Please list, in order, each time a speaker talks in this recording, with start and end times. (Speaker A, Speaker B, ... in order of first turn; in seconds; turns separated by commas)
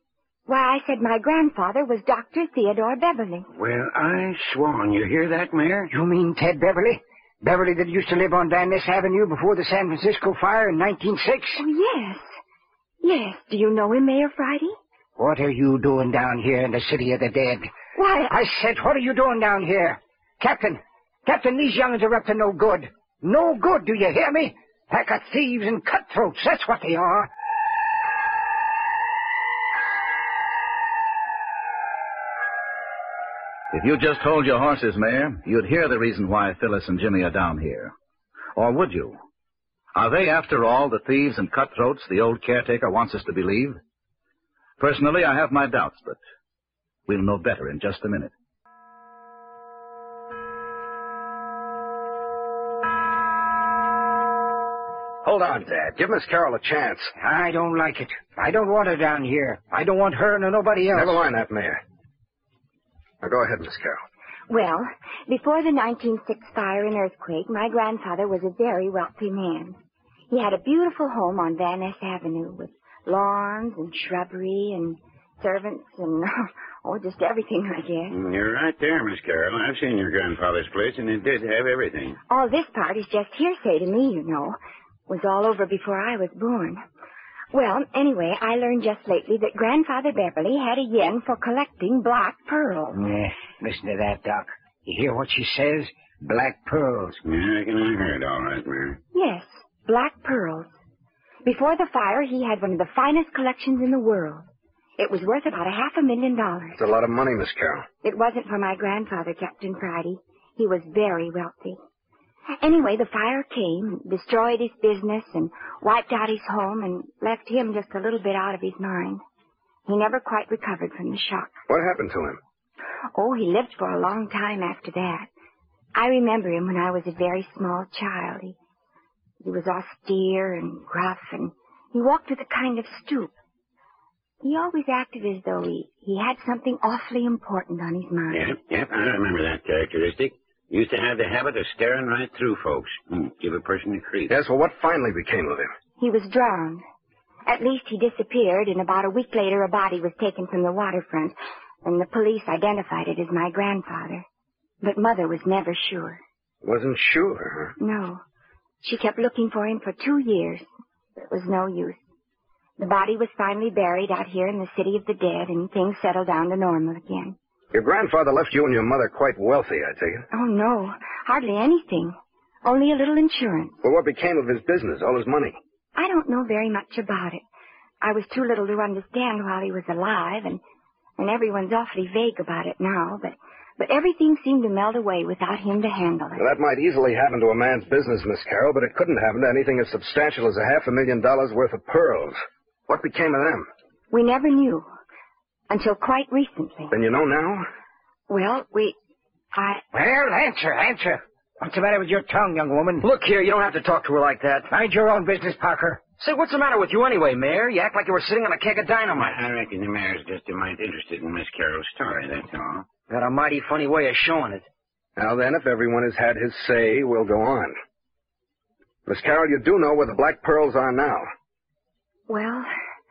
Speaker A: 0.5-3.5, Speaker B: 3.5-5.9, Speaker C: 5.9-11.6, Speaker A: 11.6-12.2, Speaker A: 13.0-14.8, Speaker C: 15.2-17.7, Speaker A: 17.9-18.4, Speaker C: 18.3-27.3, Speaker D: 33.7-37.9, Speaker D: 38.6-39.2, Speaker D: 40.0-43.8, Speaker D: 44.8-46.2, Speaker D: 47.1-48.3, Speaker E: 55.2-57.1, Speaker C: 57.2-61.2, Speaker E: 60.9-61.8, Speaker E: 63.2-64.0, Speaker A: 64.5-69.8, Speaker A: 70.3-78.2, Speaker B: 78.1-82.2, Speaker A: 82.3-84.6, Speaker A: 85.1-86.8, Speaker A: 87.5-93.0, Speaker C: 92.9-97.2, Speaker B: 97.2-99.0, Speaker A: 99.1-100.7, Speaker A: 101.5-104.5, Speaker A: 105.0-106.8, Speaker E: 106.8-107.8, Speaker A: 108.0-111.8, Speaker A: 112.6-119.2, Speaker A: 119.9-121.5, Speaker E: 121.7-122.4, Speaker A: 123.2-125.3, Speaker A: 126.0-128.6, Speaker A: 129.4-133.3, Speaker A: 134.4-138.5, Speaker B: 138.3-144.3, Speaker E: 144.3-145.7, Speaker A: 146.0-146.8, Speaker A: 147.5-154.2, Speaker A: 154.8-156.2, Speaker E: 156.6-157.8, Speaker A: 157.8-158.2, Speaker A: 158.8-160.7, Speaker A: 161.2-162.0, Speaker A: 162.8-167.4, Speaker E: 167.7-170.3, Speaker A: 170.3-173.8, Speaker E: 173.8-175.6, Speaker A: 175.9-177.4, Speaker A: 178.0-180.6, Speaker A: 181.2-186.4, Speaker E: 186.4-193.7, Speaker A: 194.1-194.8, Speaker A: 195.7-196.9, Speaker E: 196.9-197.7, Speaker A: 198.3-199.0, Speaker A: 199.5-199.8, Speaker C: 199.9-203.0, Speaker F: 203.0-204.7, Speaker C: 204.7-206.0, Speaker F: 206.2-209.4, Speaker B: 209.2-212.9, Speaker F: 213.1-214.7, Speaker E: 215.2-217.8, Speaker E: 219.1-221.3, Speaker A: 222.3-222.7